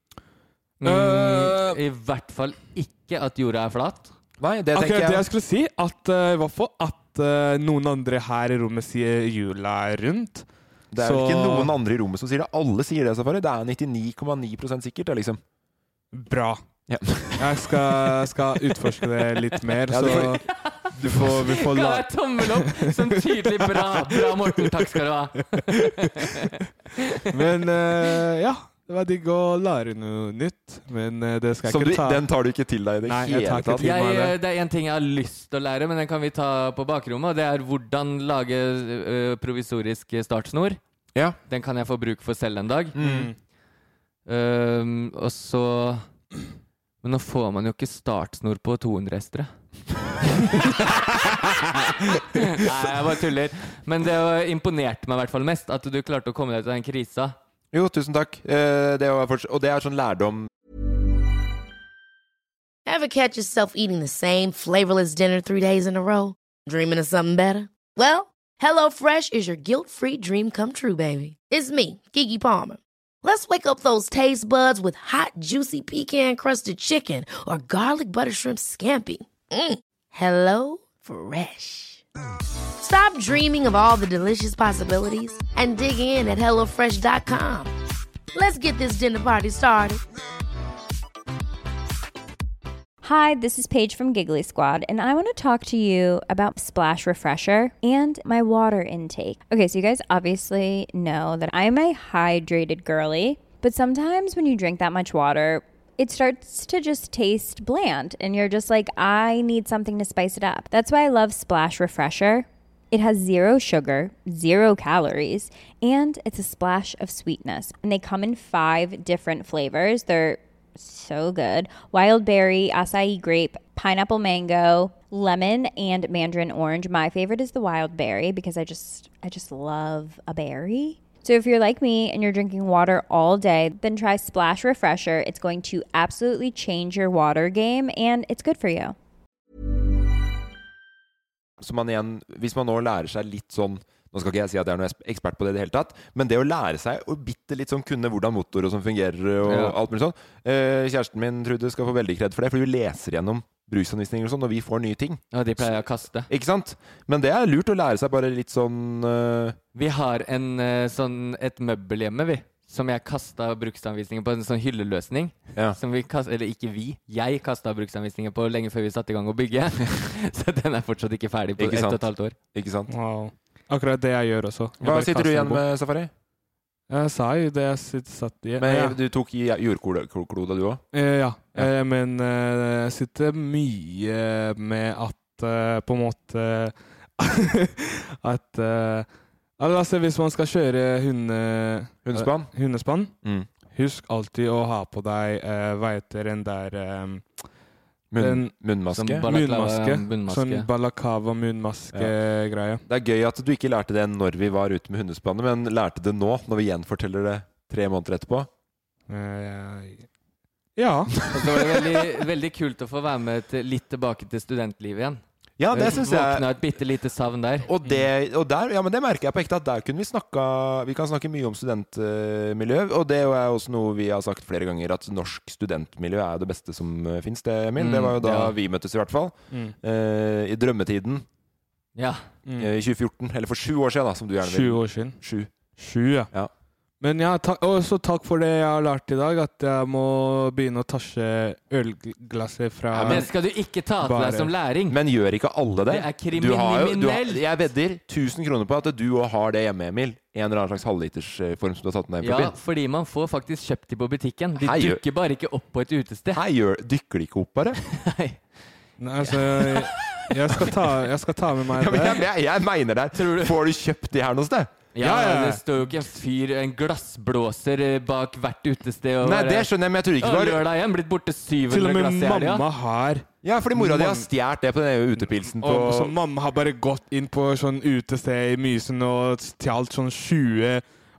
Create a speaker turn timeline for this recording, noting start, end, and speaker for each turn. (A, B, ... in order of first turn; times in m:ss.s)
0:00.8-0:04.1 A
0:00.8-0:01.8 B
0:04.4-0:05.2 C
0:04.7-0:10.4 B
0:10.9-0:15.4 C
0:11.0-0:11.7 B
0:16.1-0:16.6 B
0:16.9-0:18.1 C
0:17.4-0:20.4 B
0:19.9-0:20.4 C
0:20.0-0:20.7 A
0:20.9-0:21.8 C
0:21.1-0:25.9 B
0:21.5-0:27.2 A
0:27.3-0:32.2 B
0:31.6-0:33.9 C
0:33.0-0:34.3 B
0:33.8-0:40.8 A
0:41.5-0:43.0 A
0:43.0-0:43.3 C
0:43.0-0:43.3 B
0:44.2-0:46.0 A
0:47.0-0:49.5 A
0:50.5-0:57.4 A
0:57.7-1:00.5 C
1:02.8-1:22.0 D
1:22.8-1:27.7 D
1:28.3-1:30.0 D
1:33.0-2:18.9 E
2:21.6-2:35.7 C
2:29.4-2:29.8 A
2:35.3-2:36.3 A
2:36.3-2:39.6 C
2:39.7-2:52.3 A
2:51.6-2:52.0 C
2:52.5-2:52.9 C
2:52.9-2:55.6 B
2:54.8-2:56.1 C
2:56.9-2:59.0 B
2:58.6-3:00.8 C
3:00.9-3:09.1 B
3:09.6-3:17.3 B
3:12.0-3:12.5 C
3:13.2-3:13.5 C
3:18.1-3:19.3 C
3:18.2-3:18.5 B
3:18.9-3:20.7 A
3:19.2-3:22.8 B
3:22.8-3:28.5 C
3:29.1-3:30.0 B
3:30.8-3:31.1 B
3:31.3-3:35.2 A
3:31.4-3:31.9 C
3:35.6-3:36.4 C
3:35.7-3:38.1 A
3:37.6-3:51.2 C
3:47.8-3:48.5 A
3:52.0-3:52.2 A
3:52.6-3:55.5 C
3:54.4-3:55.2 B
3:55.8-3:56.3 B
3:57.0-4:03.3 B
4:02.9-4:03.2 C
4:03.0-4:05.0 A
4:04.0-4:04.5 B
4:04.9-4:12.5 C
4:05.9-4:07.4 A
4:12.2-4:16.4 A
4:14.6-4:15.0 C
4:16.3-4:17.8 C
4:17.9-4:18.4 A
4:19.0-4:22.2 B
4:19.2-4:20.2 A
4:21.7-4:24.7 C
4:23.1-4:23.6 A
4:24.9-4:32.6 A
4:25.0-4:25.6 B
4:29.2-4:30.6 C
4:31.7-4:34.3 B
4:33.4-4:36.1 C
4:35.6-4:40.8 B